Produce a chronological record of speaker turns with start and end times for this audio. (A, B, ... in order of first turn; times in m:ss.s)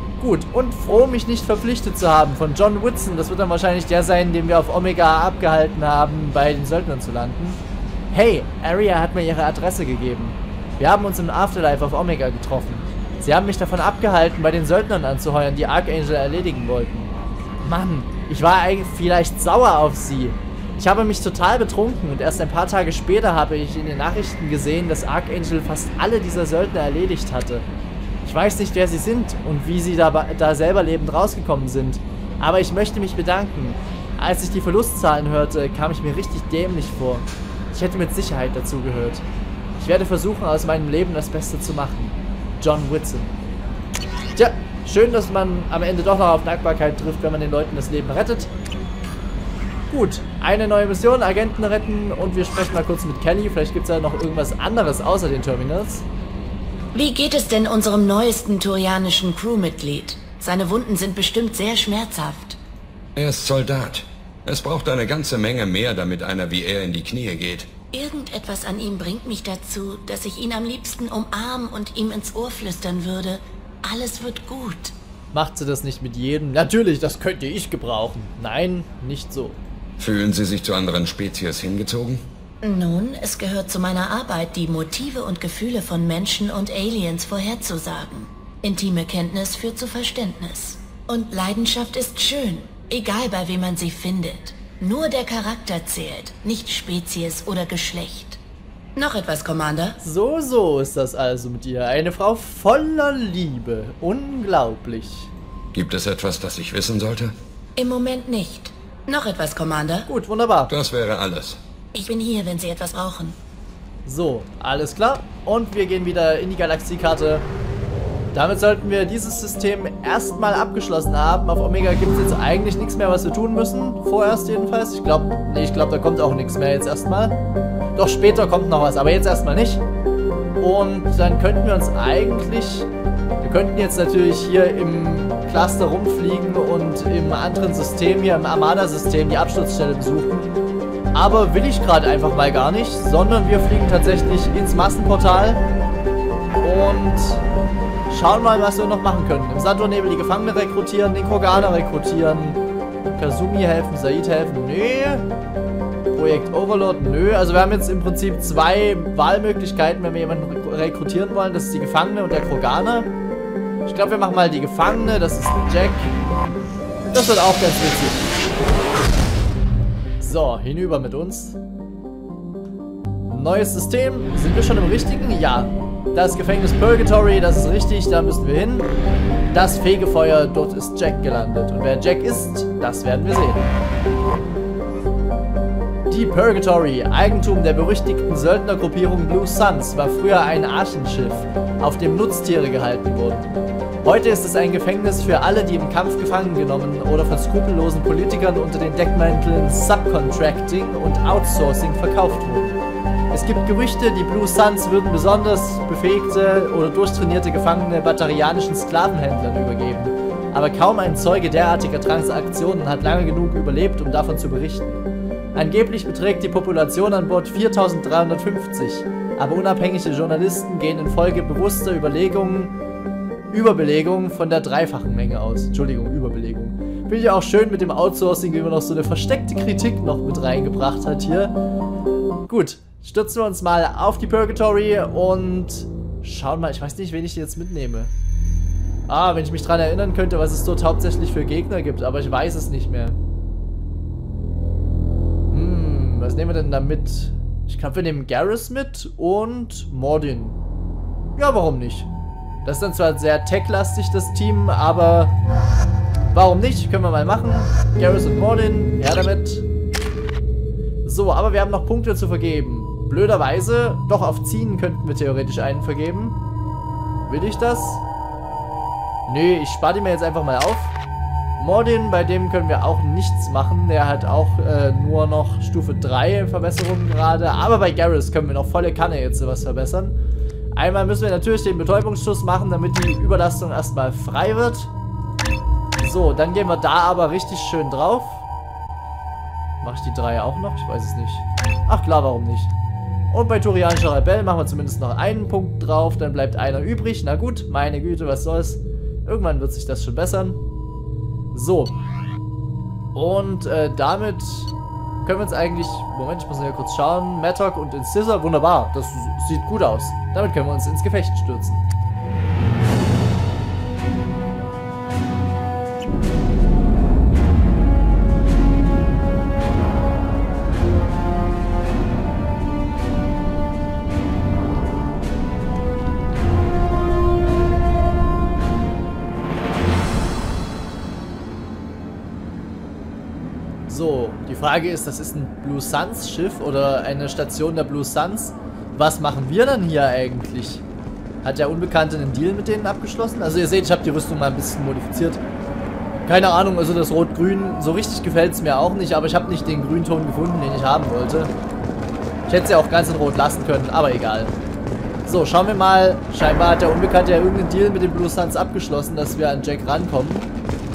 0:00.2-0:07.6 A
0:08.1-0:17.1 A
0:17.6-0:27.6 A
0:28.2-0:39.2 A
0:39.8-0:43.3 A
0:44.4-0:48.5 A
0:49.9-0:56.0 A
0:56.9-1:02.6 B
1:03.2-1:07.7 C
1:07.9-1:14.9 B
1:15.3-1:19.6 A
1:20.0-1:22.2 C
1:22.6-1:38.4 B
1:39.0-1:40.0 B
1:40.0-1:45.3 A
1:45.7-1:47.3 C
1:47.8-1:50.1 B
1:50.1-1:50.7 A
1:50.7-1:51.6 C
1:51.9-1:53.4 B
1:54.0-1:57.4 A
1:58.3-2:07.4 A
2:08.0-2:09.8 A
2:10.6-2:12.9 A
2:13.4-2:20.5 A
2:21.1-2:25.6 A
2:26.6-2:27.4 A
2:28.1-2:35.2 A
2:36.1-2:43.1 A
2:43.8-2:46.1 A
2:47.1-2:48.3 A
2:50.2-2:51.6 A
2:53.3-2:58.9 A
2:59.5-3:03.7 A
3:06.1-3:13.5 A
3:14.0-3:22.8 A
3:23.3-3:35.0 A
3:35.5-3:42.7 A
3:43.5-3:51.5 A
3:52.5-3:58.1 A
3:59.1-4:03.2 A
4:05.5-4:10.6 A
4:11.4-4:12.1 A
4:12.6-4:15.3 A
4:16.3-4:19.6 A
4:21.0-4:26.4 A
4:27.3-4:28.0 A
4:29.3-4:30.9 A
4:31.6-4:40.2 A
4:40.7-4:44.9 A
4:46.0-4:48.4 A
4:49.8-4:52.7 A
4:53.3-5:00.6 A
5:01.5-5:01.9 A
5:03.1-5:04.7 A
5:05.2-5:11.8 A
5:33.9-5:40.8 A
5:41.4-5:45.4 A
5:46.2-5:51.5 A
5:52.5-5:54.6 A
5:55.2-6:00.5 A